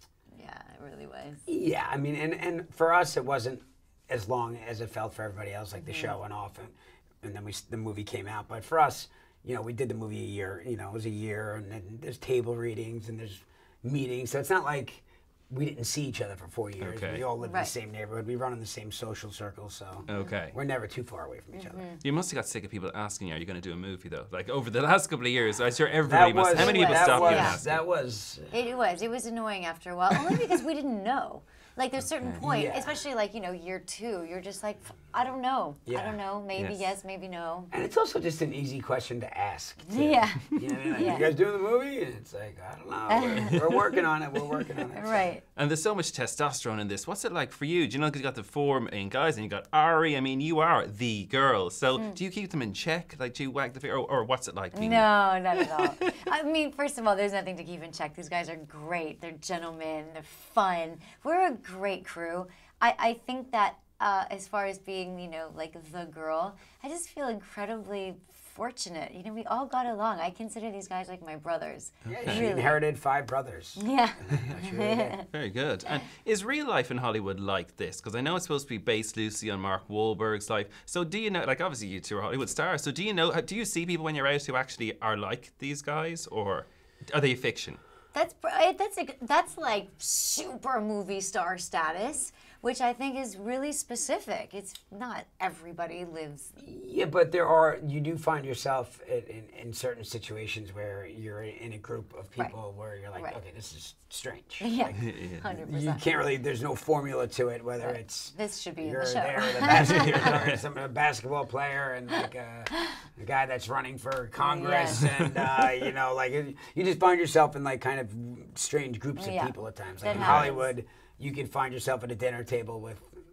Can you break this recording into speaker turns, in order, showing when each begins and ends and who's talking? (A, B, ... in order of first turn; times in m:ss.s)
0:00.3-0:01.4 A
0:01.5-0:21.9 B
0:05.8-0:06.1 A
0:16.8-0:17.3 C
0:17.4-0:17.7 A
0:20.1-0:20.5 C
0:21.5-0:22.0 A
0:22.0-0:27.8 C
0:26.0-0:28.7 B
0:26.5-0:27.6 A
0:28.5-0:37.7 A
0:32.0-0:32.4 C
0:32.4-0:33.0 B
0:35.8-0:36.2 B
0:36.6-0:36.9 C
0:37.7-0:45.2 B
0:39.8-0:41.3 A
0:43.1-0:43.9 A
0:44.9-0:45.4 A
0:45.6-0:55.1 C
0:54.7-1:12.8 A
1:12.0-1:12.4 C
1:12.1-1:15.2 B
1:13.8-1:15.2 A
1:15.3-1:27.8 C
1:28.1-1:36.5 A
1:36.6-2:03.2 B
1:44.6-1:46.0 A
1:44.9-1:45.4 C
1:47.8-1:50.3 A
1:50.1-1:50.6 C
1:52.7-1:53.0 A
1:54.4-1:55.1 A
1:55.0-1:55.6 C
1:59.2-2:00.7 A
2:00.1-2:00.5 C